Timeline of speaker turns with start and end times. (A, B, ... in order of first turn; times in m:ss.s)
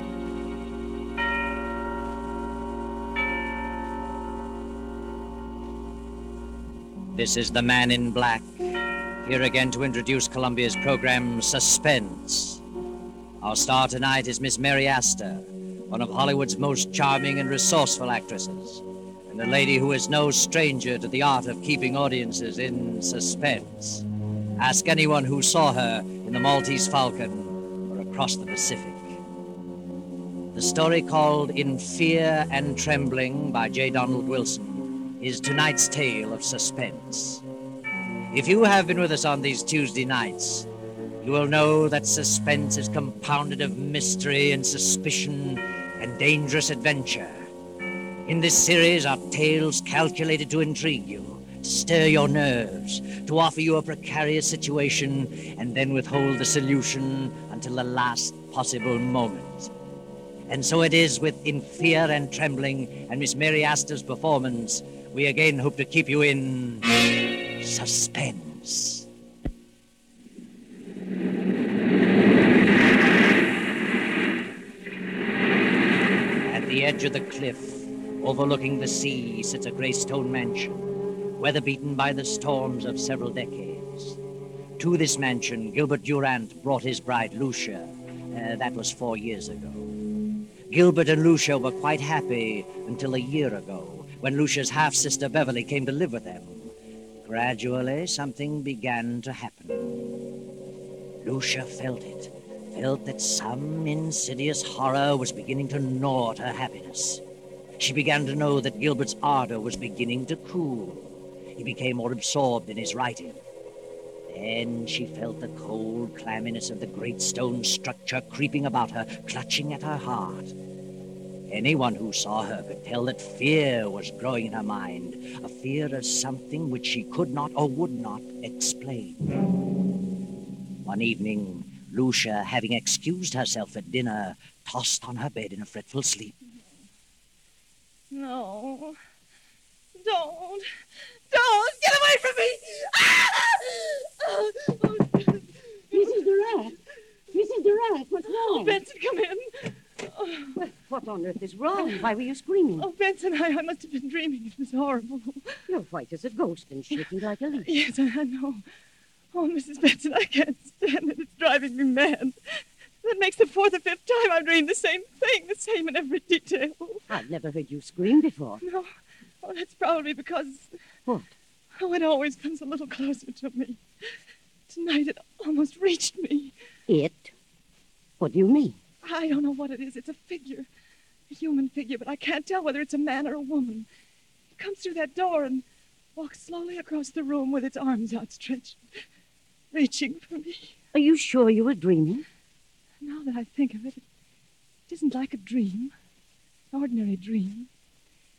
0:07.1-0:08.5 A
0:09.2-0:12.6 A
0:13.4-0:24.0 A
0:24.6-0:29.1 A
0:30.5-0:37.4 A
0:38.3-0:40.7 A
0:41.2-0:47.5 A
0:48.2-0:59.7 A
1:00.5-1:09.0 A
1:16.4-1:20.9 A
1:21.4-1:24.2 A
1:24.8-1:29.9 A
1:30.7-1:36.7 A
1:37.2-1:40.2 A
1:41.2-1:47.2 A
1:47.8-1:53.4 A
1:54.3-2:00.5 A
2:01.5-2:09.5 A
2:10.8-2:16.3 A
2:18.1-2:19.0 B
2:19.9-2:20.7 B
2:21.3-2:26.2 B
2:25.9-2:26.7 C
2:27.3-2:28.8 C
2:28.3-2:30.6 B
2:30.6-2:32.9 C
2:32.8-2:35.6 B
2:35.7-2:37.7 C
2:37.6-2:38.6 B
2:39.3-2:47.1 B
2:47.1-2:48.6 C
2:48.6-2:48.9 B
2:49.4-2:50.7 B
2:51.1-2:51.3 C
2:51.8-2:53.8 B
2:54.7-2:56.5 B
2:56.9-2:57.3 C
2:58.2-2:58.8 C
2:59.0-3:00.7 B
3:01.3-3:03.9 B
3:04.6-3:05.6 B
3:06.2-3:08.8 B
3:09.7-3:10.8 B
3:10.9-3:12.2 C
3:13.0-3:14.0 B
3:14.9-3:15.9 B
3:16.7-3:17.7 B